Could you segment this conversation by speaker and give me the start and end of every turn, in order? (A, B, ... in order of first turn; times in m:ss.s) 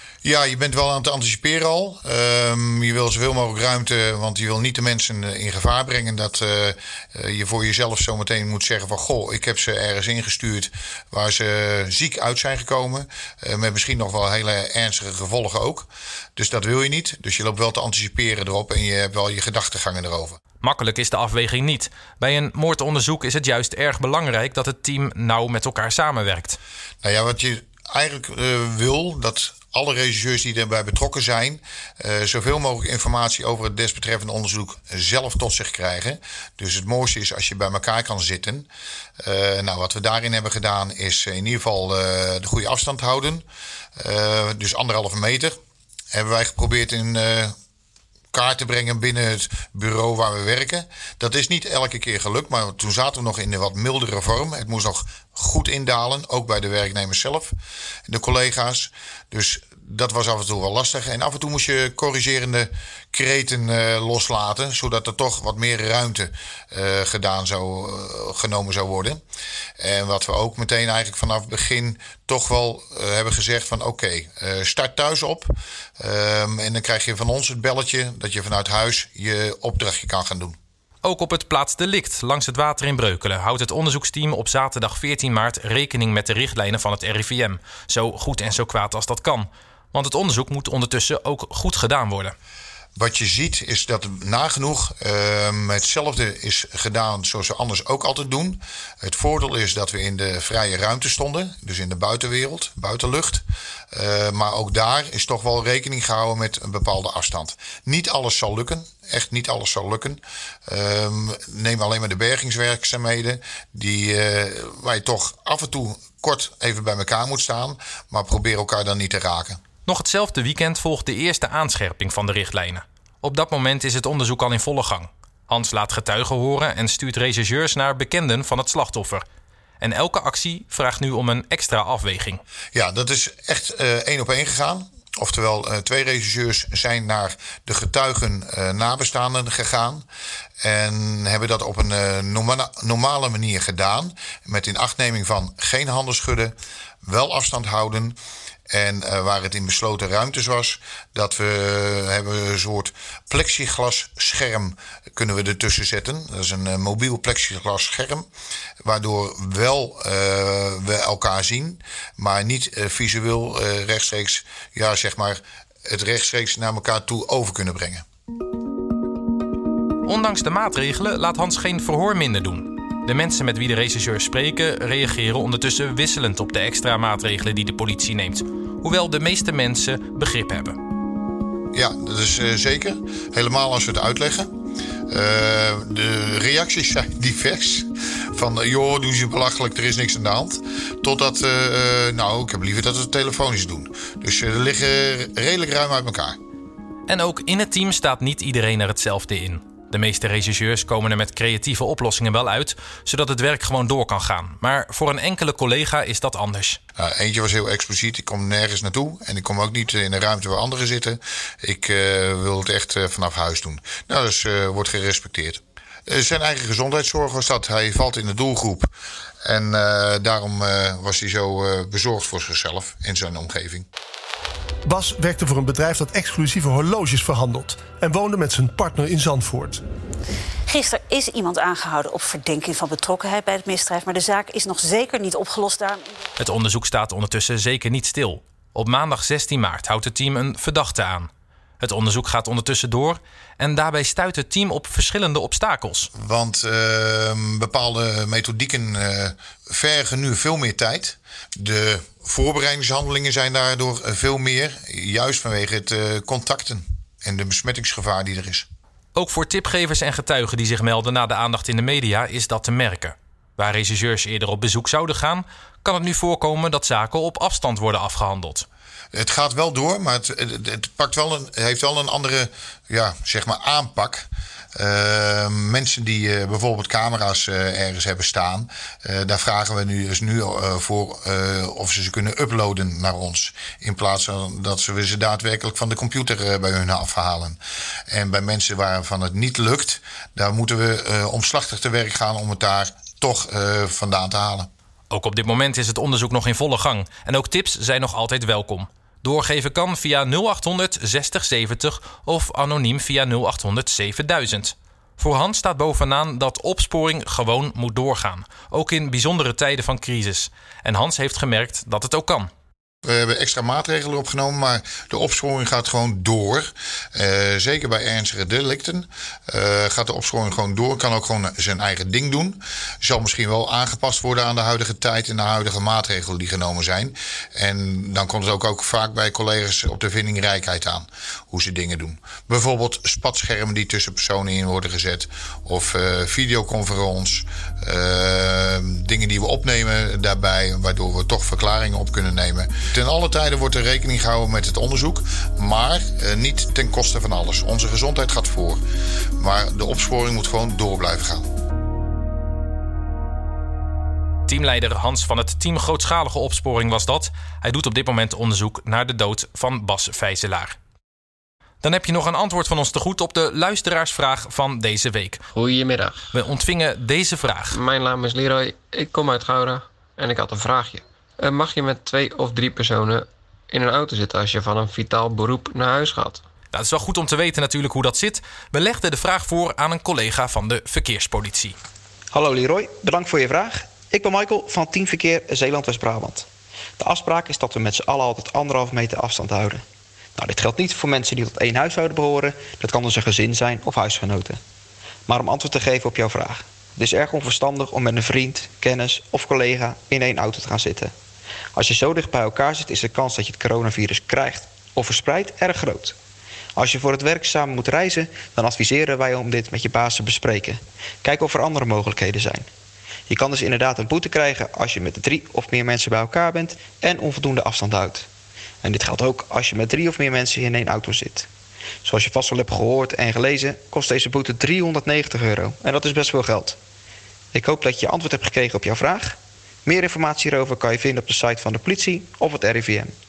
0:00.2-0:20.4 A
0:20.6-0:26.6 B
0:27.0-0:38.7 A
0:39.2-0:43.4 A
0:44.0-0:45.5 A
0:46.1-0:47.5 A
0:48.3-0:57.5 A
0:58.1-1:09.2 A
1:09.8-1:20.6 A
1:21.0-1:32.3 B
1:33.0-1:59.6 A
1:59.8-2:09.2 B
2:09.8-2:12.4 B
2:12.7-2:20.0 A
2:20.6-2:28.2 A
2:28.7-2:38.3 A
2:38.8-2:48.0 A
2:50.0-3:00.8 B
3:01.7-3:04.5 A
3:05.1-3:16.4 A
3:17.1-3:26.8 B
3:27.0-3:38.9 A
3:39.4-3:43.8 A
3:44.8-3:49.8 C
3:50.7-3:56.2 D
3:56.4-4:01.3 B
4:01.8-4:06.1 B
4:06.1-4:18.6 A
4:19.1-4:28.6 B
4:29.1-4:54.7 A
4:55.1-5:12.5 B
5:13.0-5:48.8 A
5:49.4-5:51.4 A
5:54.5-6:00.8 B
6:01.8-6:05.4 B
6:05.5-6:06.3 E
6:06.3-6:07.8 B
6:07.7-6:16.4 E
6:16.7-6:21.8 B
6:22.3-6:26.5 F
6:27.0-6:29.8 F
6:30.4-6:34.6 F
6:35.3-6:41.1 F
6:41.8-6:46.2 F
6:46.8-6:52.7 F
6:53.3-6:58.3 F
6:58.8-7:01.5 F
7:02.0-7:06.8 F
7:07.5-7:13.1 F